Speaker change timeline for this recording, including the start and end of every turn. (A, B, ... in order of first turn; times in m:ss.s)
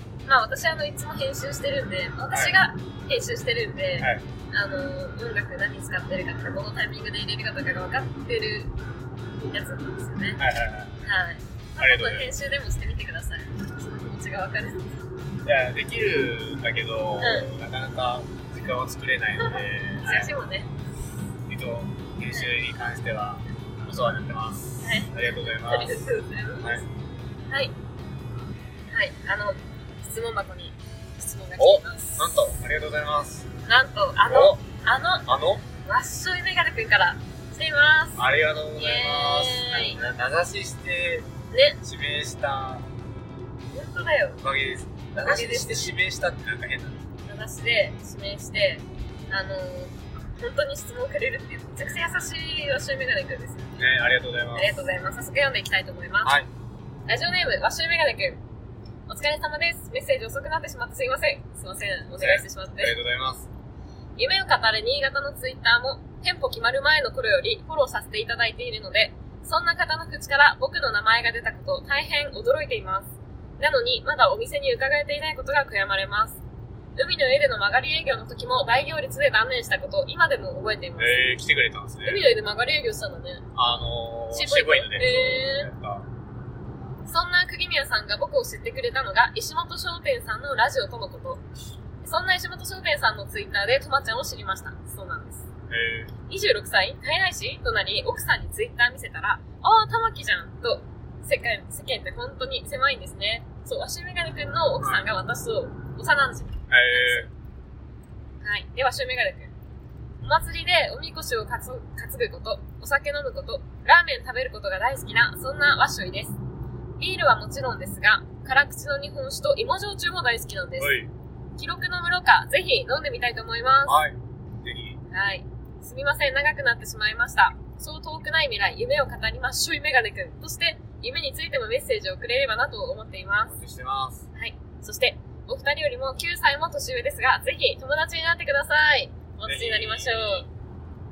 0:00.2-0:08.7 A
0:02.3-0:02.6 B
0:04.0-0:04.2 B
0:09.4-0:10.4 A
0:10.4-0:11.0 B
0:11.0-0:15.0 A
0:11.8-0:12.3 B
0:15.4-0:20.3 B
0:17.2-0:17.5 A
0:19.4-0:20.7 A
0:21.5-0:26.8 B
0:24.8-0:26.8 A
0:27.5-0:27.7 A
0:28.9-0:32.4 A
0:31.6-0:33.5 B
0:33.6-0:35.3 A
0:34.2-0:34.6 B
0:35.3-0:35.6 B
0:35.8-0:38.2 A
0:38.2-0:41.3 B
0:38.8-0:40.0 A
0:41.5-0:41.8 A
0:41.8-0:42.9 B
0:43.7-0:44.4 A
0:44.4-0:47.0 B
0:45.1-0:45.9 A
0:47.2-0:53.8 A
0:53.8-0:54.8 B
0:54.5-0:56.4 A
0:57.1-0:58.4 A
0:59.1-1:03.0 A
1:02.2-1:03.5 B
1:04.2-1:16.4 A
1:17.0-1:21.2 A
1:21.0-1:22.3 B
1:22.0-1:23.4 A
1:23.5-1:26.1 B
1:24.3-1:25.7 A
1:27.0-1:31.4 A
1:32.0-1:35.4 A
1:35.7-1:36.1 B
1:36.3-1:47.3 A
1:44.8-1:45.0 B
1:46.7-1:47.3 B
1:48.4-1:49.5 A
1:50.2-1:56.4 A
1:57.0-2:01.0 A
2:00.8-2:01.1 B
2:01.6-2:03.9 A
2:03.8-2:05.0 B
2:05.1-2:13.5 A
2:13.5-2:14.3 B
2:14.3-2:20.5 A
2:19.4-2:20.5 B